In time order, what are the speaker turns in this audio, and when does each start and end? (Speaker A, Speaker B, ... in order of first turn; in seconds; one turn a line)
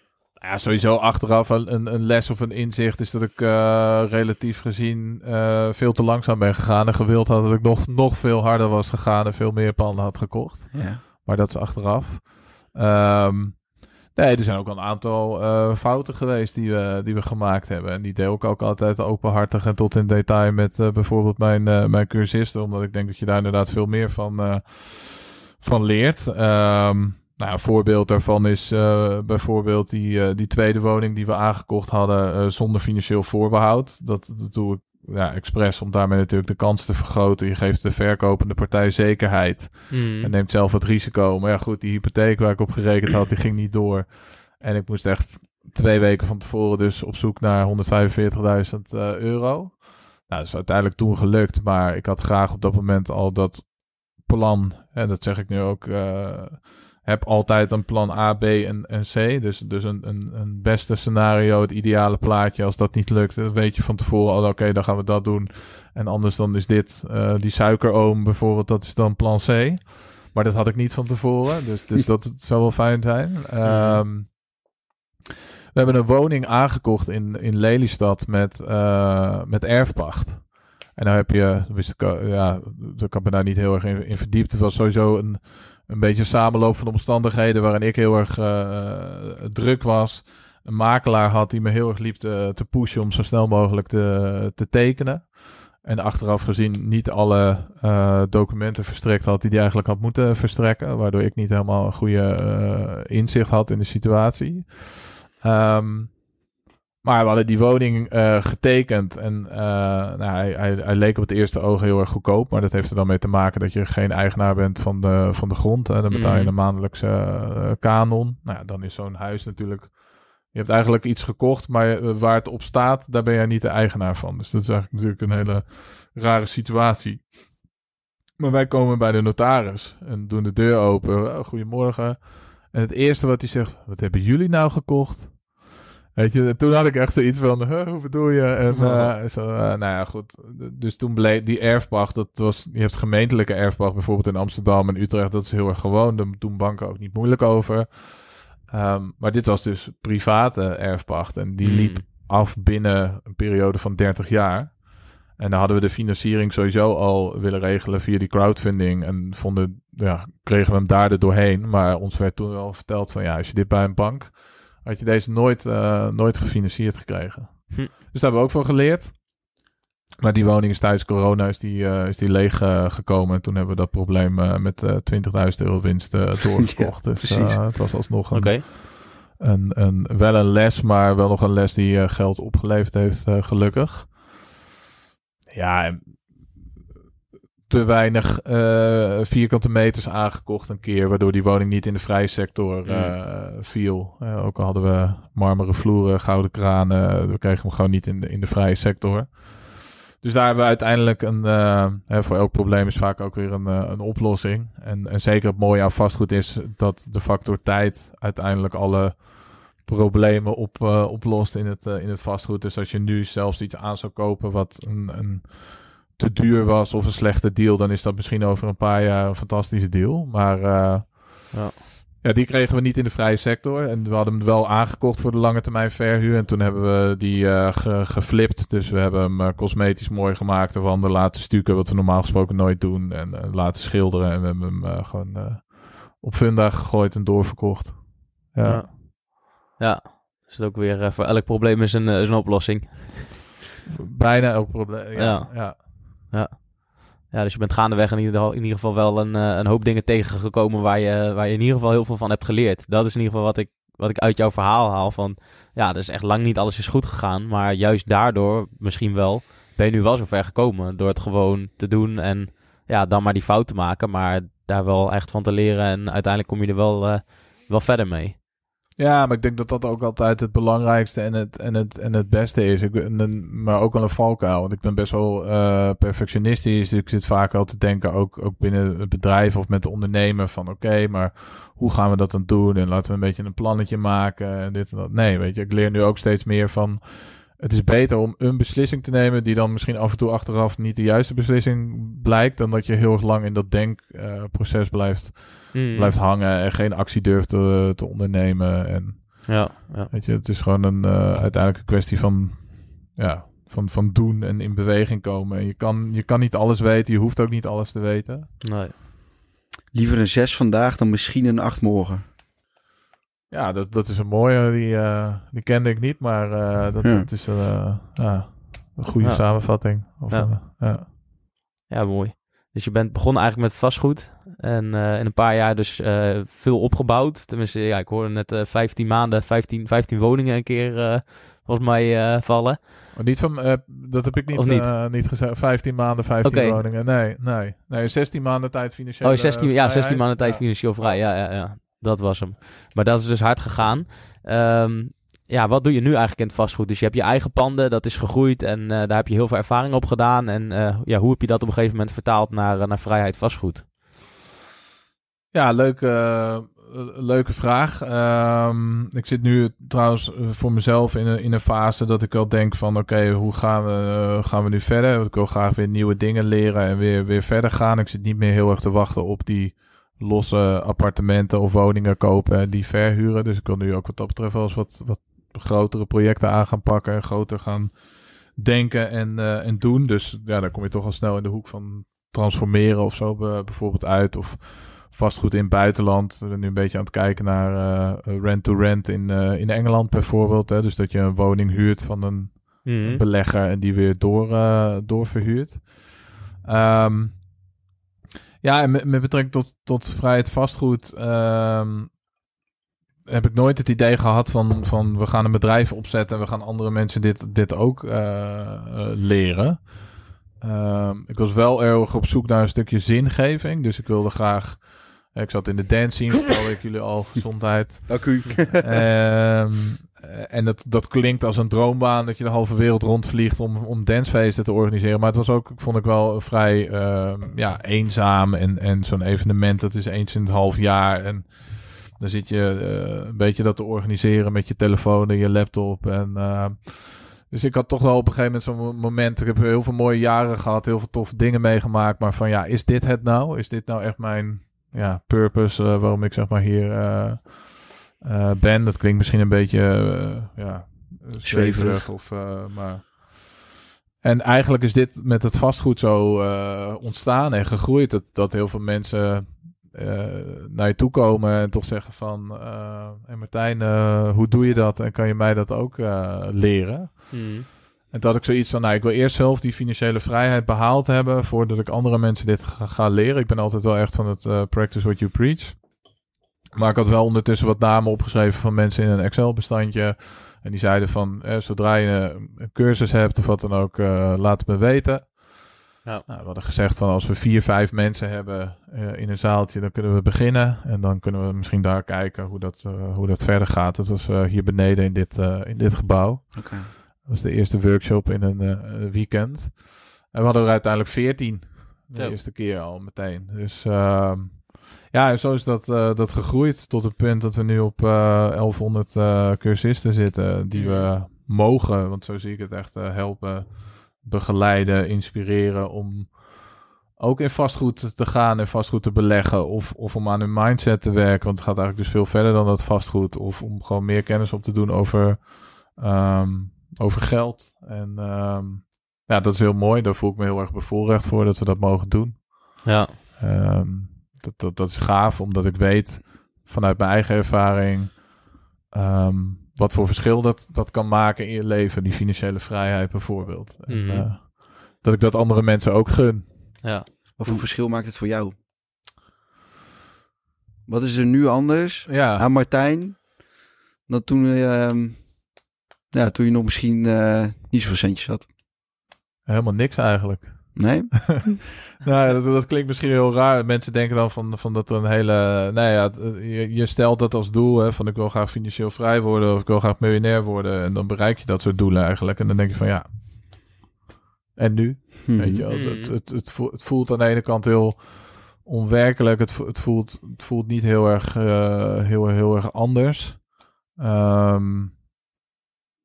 Speaker A: 0.4-74.4
Speaker B: 10.7-11.0
Speaker C: 39.9-40.3
Speaker C: 73.6-74.0
Speaker A: 75.7-106.2
Speaker A: 107.0-127.5
Speaker C: 116.1-116.5
Speaker A: 128.4-169.4
Speaker C: 138.7-139.1
Speaker C: 151.6-152.0
Speaker A: 170.2-184.4
Speaker B: 176.7-177.6
Speaker C: 178.3-178.6
Speaker A: 185.5-186.7
Speaker A: 187.7-221.6
Speaker C: 192.8-193.1
Speaker C: 221.5-221.8
Speaker A: 222.2-238.9
Speaker C: 238.7-243.4
Speaker A: 243.9-245.8
Speaker C: 245.2-268.4
Speaker A: 269.0-308.5
Speaker C: 295.7-296.1
Speaker C: 299.5-300.1
Speaker C: 308.6-308.9
Speaker B: 309.9-312.2
Speaker A: 313.5-321.1
Speaker B: 317.0-317.3
Speaker C: 319.2-320.5
Speaker C: 321.9-332.8
Speaker A: 333.1-341.2
Speaker C: 334.5-334.9
Speaker C: 336.4-336.8
Speaker C: 339.2-353.9
Speaker A: 355.5-397.5
Speaker C: 392.9-393.2
Speaker A: 398.6-402.1
Speaker A: 403.3-453.6
Speaker B: 418.1-418.9
Speaker B: 451.4-452.1
Speaker A: 454.2-467.6
Speaker C: 467.3-467.7
Speaker A: 468.1-476.0
Speaker A: 476.7-532.9
Speaker B: 496.6-496.9
Speaker C: 510.7-511.1
Speaker C: 532.9-533.1
Speaker A: 533.4-546.9
Speaker C: 543.9-544.3
Speaker B: 547.4-548.6
Speaker B: 550.9-555.6
Speaker A: 552.1-552.5
Speaker B: 556.1-558.5
Speaker A: 559.5-573.7
Speaker B: 560.8-561.6
Speaker A: 574.6-585.0
Speaker B: 575.2-575.6
Speaker C: 575.7-576.1